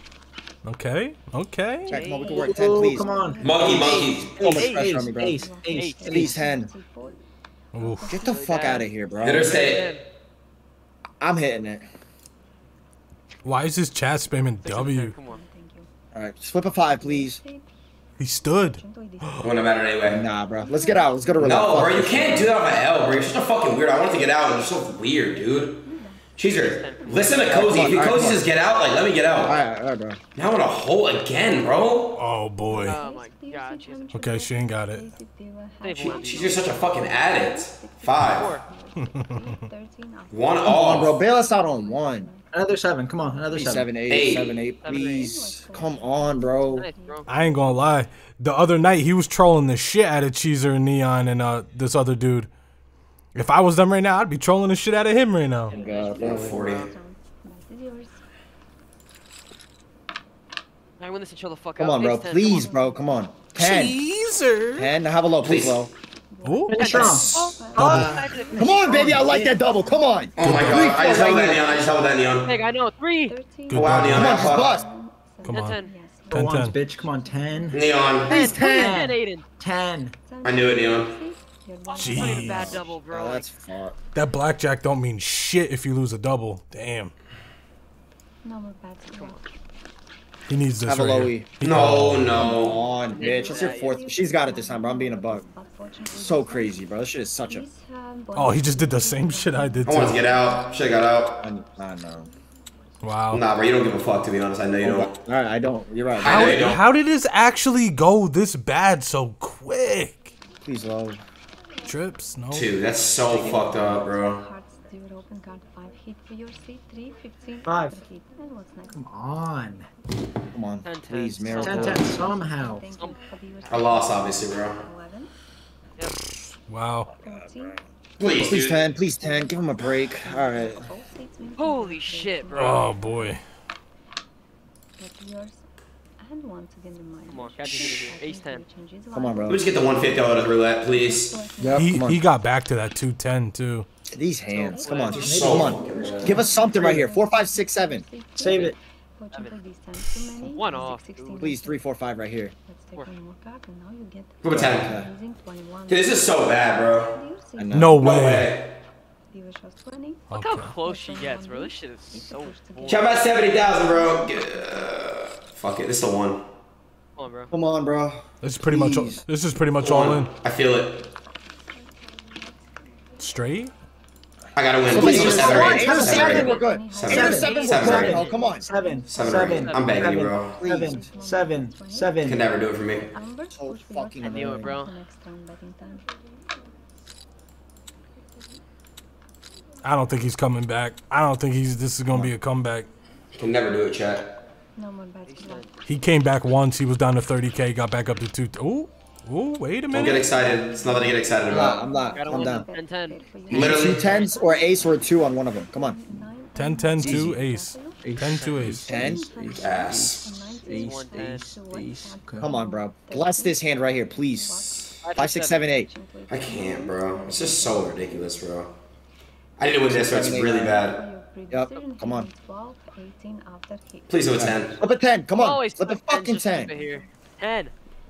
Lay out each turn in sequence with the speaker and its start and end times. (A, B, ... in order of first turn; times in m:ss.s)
0:00.6-0:02.0 A
0:01.9-0:02.6 B
0:01.9-0:03.1 C
0:02.0-0:04.3 D
0:02.3-0:06.4 E
0:03.4-0:04.4 F
0:03.6-0:04.9 B
0:04.4-0:05.4 C
0:05.2-0:07.2 D
0:05.7-0:06.1 B
0:06.1-0:06.7 C
0:07.7-0:08.1 A
0:07.8-0:09.5 C
0:08.1-0:10.0 B
0:09.2-0:09.9 F
0:11.2-0:11.8 C
0:13.4-0:15.1 A
0:14.6-0:15.4 B
0:15.2-0:15.9 D
0:16.1-0:17.4 C
0:17.0-0:17.5 D
0:18.2-0:19.5 A
0:18.8-0:19.5 D
0:19.4-0:20.2 F
0:20.0-0:22.5 C
0:20.6-0:22.0 D
0:21.4-0:29.6 F
0:24.7-0:26.2 D
0:26.5-0:27.8 B
0:27.5-0:28.5 C
0:29.4-0:30.2 C
0:30.4-0:32.2 F
0:32.2-0:33.0 A
0:32.7-0:40.3 D
0:32.8-0:34.2 B
0:34.1-0:35.1 A
0:35.8-0:36.6 B
0:36.0-0:38.6 F
0:38.1-0:38.6 B
0:39.0-0:39.6 A
0:40.3-0:41.2 F
0:40.6-0:42.3 C
0:41.7-0:42.4 D
0:42.5-0:43.9 E
0:43.5-0:46.9 C
0:44.1-0:44.6 F
0:44.8-0:45.3 B
0:45.0-0:46.0 D
0:46.7-0:47.3 B
0:46.8-0:47.8 D
0:47.3-0:52.5 A
0:53.4-0:55.7 A
0:55.7-0:56.9 B
0:55.7-0:56.6 C
0:56.1-0:56.9 F
0:56.6-0:58.2 D
1:01.0-1:02.7 B
1:01.8-1:04.0 C
1:02.4-1:02.9 D
1:03.6-1:04.9 A
1:04.8-1:05.9 C
1:05.4-1:05.9 F
1:06.4-1:10.0 D
1:06.4-1:08.3 A
1:06.7-1:07.3 E
1:06.7-1:09.5 B
1:06.9-1:11.6 C
1:08.8-1:09.6 E
1:10.4-1:12.5 F
1:10.4-1:11.0 A
1:11.5-1:11.9 D
1:12.4-1:13.4 B
1:13.3-1:17.8 D
1:13.7-1:14.5 A
1:13.7-1:14.8 F
1:14.1-1:14.9 C
1:15.4-1:15.8 A
1:15.5-1:15.9 B
1:16.3-1:20.2 E
1:16.3-1:16.8 A
1:17.7-1:18.3 F
1:18.3-1:19.0 C
1:18.3-1:19.4 B
1:20.4-1:22.8 D
1:20.4-1:21.2 F
1:21.9-1:23.5 B
1:22.0-1:22.8 A
1:22.5-1:24.0 C
1:24.1-1:27.1 A
1:28.4-1:29.5 D
1:30.5-1:32.7 A
1:30.8-1:31.5 C
1:31.6-1:32.8 F
1:32.4-1:35.4 C
1:33.0-1:34.0 B
1:33.2-1:36.7 D
1:36.1-1:37.7 C
1:37.5-1:40.7 D
1:38.4-1:40.2 A
1:39.8-1:41.4 F
1:41.4-1:42.3 C
1:43.0-1:43.4 A
1:43.3-1:45.1 F
1:44.8-1:46.7 C
1:46.2-1:46.8 F
1:46.2-1:50.3 A
1:50.6-1:51.2 C
1:51.9-1:52.7 A
1:52.5-1:54.4 F
1:54.0-1:59.0 D
1:57.6-1:58.0 E
1:58.9-1:59.9 E
2:00.5-2:02.1 C
2:00.8-2:02.3 B
2:01.5-2:05.3 D
2:01.6-2:02.9 E
2:02.9-2:03.9 B
2:03.7-2:04.8 F
2:06.7-2:07.1 A
2:07.2-2:07.8 C
2:07.3-2:07.8 D
2:08.2-2:08.9 F
2:08.4-2:10.9 C
2:10.2-2:13.3 D
2:11.6-2:12.8 B
2:12.5-2:13.4 A
2:15.0-2:15.6 D
2:16.2-2:19.6 D
2:17.3-2:18.6 B
2:19.1-2:19.6 C
2:19.5-2:21.4 F
2:21.0-2:21.8 D
2:21.6-2:22.2 C
2:21.8-2:23.9 A
2:24.1-2:28.0 C
2:24.5-2:25.7 B
2:24.7-2:25.6 D
2:25.1-2:26.4 F
2:25.2-2:27.1 E
2:26.4-2:27.4 D
2:28.0-2:31.8 D
2:28.4-2:28.8 E
2:28.4-2:28.8 B
2:30.5-2:31.5 B
2:31.4-2:32.5 C
2:32.7-2:34.4 D
2:34.4-2:35.0 F
2:34.5-2:35.1 C
2:35.0-2:36.4 D
2:35.9-2:37.2 F
2:37.1-2:37.8 D
2:37.6-2:38.1 C
2:37.7-2:38.5 A
2:37.8-2:38.8 F
2:39.4-2:44.7 D
2:40.3-2:40.7 A
2:40.3-2:43.1 B
2:42.9-2:46.4 F
2:47.2-2:47.5 B
2:47.5-2:49.2 C
2:48.4-2:50.3 A
2:49.8-2:51.1 F
2:53.2-2:53.7 A
2:54.5-2:58.3 F
2:54.8-2:58.7 C
2:54.9-2:59.2 D
2:55.0-2:56.5 E
2:56.1-2:56.6 B
2:57.1-3:02.4 E
2:57.9-2:58.4 B
2:59.1-3:00.6 F
2:59.5-2:59.8 B
3:00.6-3:01.1 C
3:00.7-3:02.2 D
3:02.2-3:03.1 F
3:03.1-3:06.0 D
3:03.5-3:04.8 C
3:04.2-3:04.9 B
3:09.8-3:12.9 A
3:13.3-3:14.4 F
3:14.8-3:15.7 D
3:15.2-3:15.7 B
3:15.9-3:20.3 A
3:19.9-3:21.8 F
3:20.8-3:24.7 D
3:21.5-3:22.7 C
3:22.1-3:24.4 B
3:23.5-3:24.0 F
3:23.5-3:26.0 C
3:25.6-3:28.1 D
3:26.5-3:29.0 A
3:27.0-3:27.4 C
3:27.0-3:27.3 E
3:28.0-3:32.5 E
3:28.9-3:29.3 C
3:28.9-3:32.8 D
3:29.4-3:30.3 F
3:30.7-3:31.4 B
3:32.4-3:35.9 C
3:35.0-3:35.7 B
3:35.9-3:37.8 D
3:36.3-3:38.7 F
3:39.6-3:41.0 F
3:39.9-3:40.8 C
3:40.8-3:44.0 D
3:41.5-3:42.3 C
3:44.1-3:44.8 F
3:44.4-3:46.7 C
3:45.4-3:47.7 B
3:46.7-3:47.0 D